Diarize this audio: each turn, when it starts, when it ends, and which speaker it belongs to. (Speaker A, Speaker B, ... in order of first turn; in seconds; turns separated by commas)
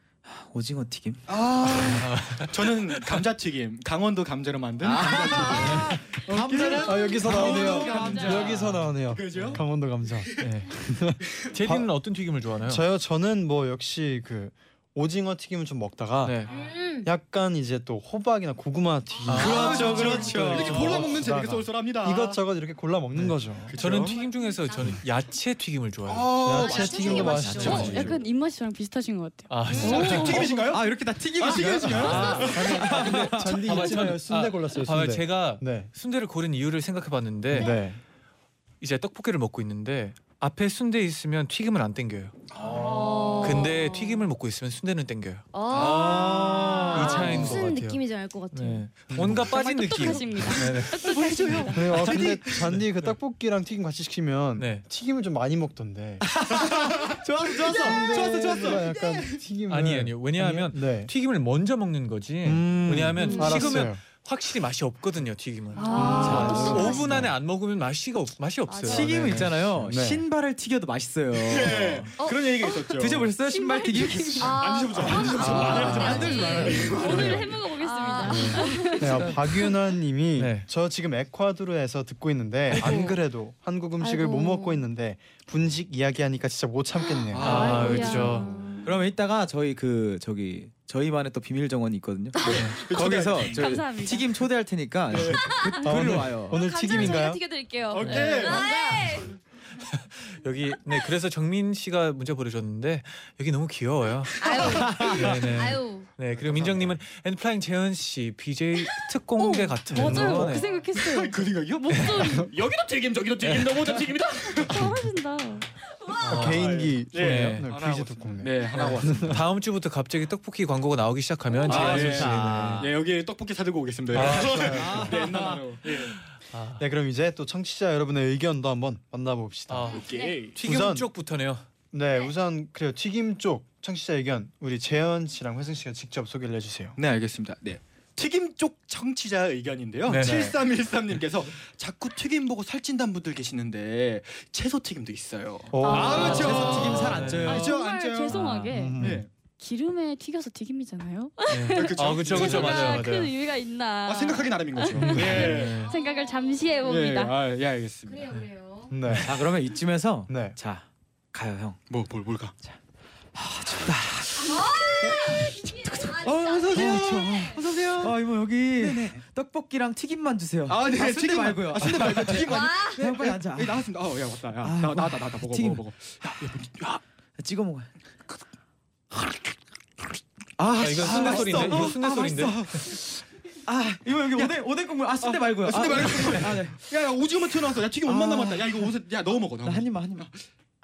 Speaker A: 0.2-1.9, Speaker B: 1.3-9.6, Speaker C: 1.8-3.2, Speaker A: 4.8-8.8, Speaker D: 6.8-11.9, Speaker E: 7.7-8.4, Speaker C: 10.4-10.7, Speaker C: 11.5-12.8, Speaker D: 12.6-16.4, Speaker C: 16.2-16.5, Speaker F: 16.5-17.1, Speaker D: 17.0-23.8, Speaker C: 19.2-21.2, Speaker B: 19.3-22.4, Speaker A: 19.4-21.3, Speaker C: 23.1-26.4, Speaker B: 23.6-24.2, Speaker F: 23.9-25.1, Speaker B: 26.1-27.9, Speaker D: 26.4-28.2, Speaker F: 26.4-28.1, Speaker A: 27.1-28.2, Speaker E: 27.6-30.5, Speaker C: 29.5-30.6, Speaker F: 29.7-30.1, Speaker B: 29.8-33.1, Speaker A: 30.0-33.8, Speaker D: 31.5-35.9, Speaker C: 32.0-37.7, Speaker D: 37.5-38.0, Speaker C: 38.8-42.4, Speaker F: 42.7-44.2, Speaker C: 43.4-45.5, Speaker F: 45.5-48.9, Speaker A: 45.7-47.5, Speaker C: 46.9-53.2, Speaker D: 49.1-49.5, Speaker E: 49.5-51.8, Speaker F: 49.8-50.5, Speaker B: 51.1-52.6, Speaker D: 51.7-56.3, Speaker A: 52.0-52.3, Speaker C: 54.6-54.9, Speaker A: 56.2-58.8, Speaker B: 56.5-59.4, Speaker D: 57.7-61.1, Speaker C: 59.7-69.5, Speaker D: 62.4-64.0, Speaker E: 63.2-63.6, Speaker F: 63.2-63.6, Speaker E: 65.8-67.0, Speaker F: 65.8-67.0, Speaker D: 66.0-67.3, Speaker A: 66.2-67.2, Speaker F: 68.7-69.1, Speaker A: 68.8-72.1, Speaker D: 69.1-70.2, Speaker B: 71.3-73.3, Speaker F: 72.2-72.8, Speaker A: 73.0-74.7, Speaker E: 73.4-79.3, Speaker F: 74.4-79.4, Speaker B: 74.4-77.6, Speaker A: 75.2-77.0, Speaker D: 75.4-76.2, Speaker D: 76.9-77.5, Speaker D: 78.2-87.7, Speaker C: 80.3-80.7, Speaker C: 82.7-83.2, Speaker F: 84.0-84.8, Speaker B: 87.3-88.2, Speaker C: 87.4-88.5, Speaker E: 87.4-88.9, Speaker F: 87.4-88.8, Speaker A: 88.8-96.6, Speaker F: 92.4-92.7, Speaker C: 92.5-92.8, Speaker B: 92.6-93.8, Speaker E: 93.5-94.2, Speaker B: 95.1-95.5, Speaker F: 95.5-95.9, Speaker D: 95.8-97.4, Speaker F: 96.5-99.3, Speaker B: 97.9-99.0, Speaker E: 98.2-98.9, Speaker C: 99.8-110.7, Speaker F: 104.4-106.1, Speaker E: 109.4-112.5, Speaker D: 109.9-110.6, Speaker B: 110.1-114.9, Speaker C: 111.9-112.3, Speaker C: 113.4-114.0, Speaker E: 114.5-115.7, Speaker F: 116.0-116.4, Speaker C: 116.2-117.7, Speaker D: 116.2-119.4, Speaker B: 116.4-119.4, Speaker C: 118.7-122.9, Speaker B: 121.6-126.2, Speaker A: 121.7-123.0, Speaker C: 124.1-125.1, Speaker D: 124.1-125.2, Speaker A: 124.3-125.7, Speaker C: 126.3-126.8, Speaker D: 126.8-130.0, Speaker C: 129.7-131.7, Speaker B: 129.9-130.6, Speaker F: 129.9-130.4, Speaker D: 130.6-131.1, Speaker D: 131.9-136.9, Speaker B: 137.0-148.4, Speaker C: 140.1-140.5, Speaker D: 140.2-140.5, Speaker D: 145.7-146.7, Speaker E: 145.8-146.9, Speaker A: 145.8-147.9, Speaker C: 146.1-147.7, Speaker E: 147.4-149.0, Speaker C: 148.3-149.1, Speaker D: 148.7-149.2, Speaker B: 149.0-149.3, Speaker E: 149.6-157.3, Speaker C: 151.5-153.3, Speaker B: 151.6-153.1, Speaker B: 154.0-155.9, Speaker C: 155.0-155.9, Speaker D: 155.1-155.4, Speaker F: 155.7-156.8, Speaker B: 156.8-158.3, Speaker F: 158.1-158.9, Speaker D: 158.9-159.3, Speaker A: 159.2-161.8, Speaker D: 160.3-160.6, Speaker B: 161.9-162.5, Speaker A: 163.3-165.2, Speaker F: 164.4-167.6, Speaker A: 166.0-173.9, Speaker B: 166.2-168.2, Speaker B: 168.8-169.2, Speaker B: 170.7-177.0, Speaker F: 172.4-173.0, Speaker A: 174.6-176.7, Speaker A: 177.4-177.9, Speaker A: 180.6-183.1, Speaker C: 180.8-182.9, Speaker B: 180.9-182.7, Speaker A: 183.7-186.9, Speaker B: 184.3-184.6, Speaker B: 185.2-190.3, Speaker A: 188.0-188.9, Speaker A: 189.6-190.3